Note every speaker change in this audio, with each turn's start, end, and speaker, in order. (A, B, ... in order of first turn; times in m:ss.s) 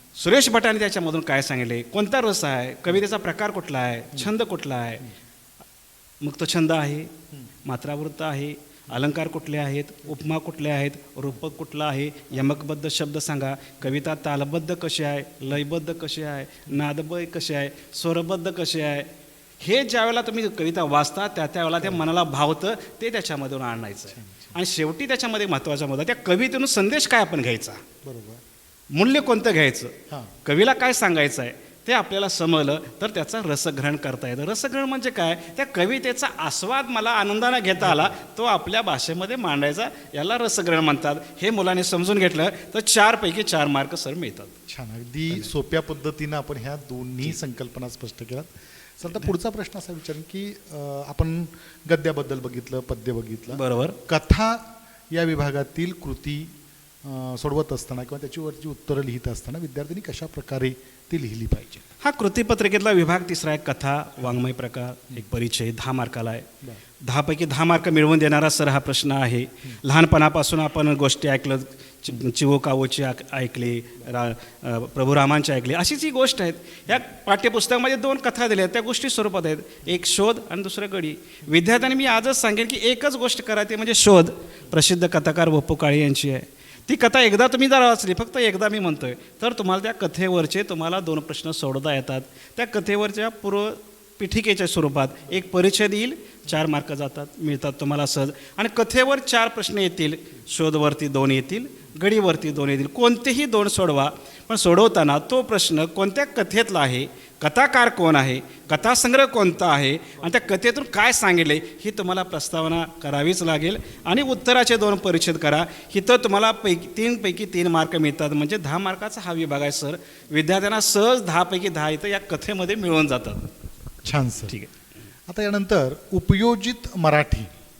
0:00.2-0:05.1 A
0:06.2-0:07.1 A
0:07.6-0:27.8 A
0:24.1-0:24.6 B
0:28.0-0:28.4 B
0:28.9-0:44.5 A
0:30.1-0:30.3 B
0:37.8-0:38.1 B
0:44.7-1:01.9 B
0:53.5-0:54.0 A
1:02.0-1:06.5 A
1:07.0-2:03.5 A
2:04.0-2:04.6 B
2:05.3-2:07.5 B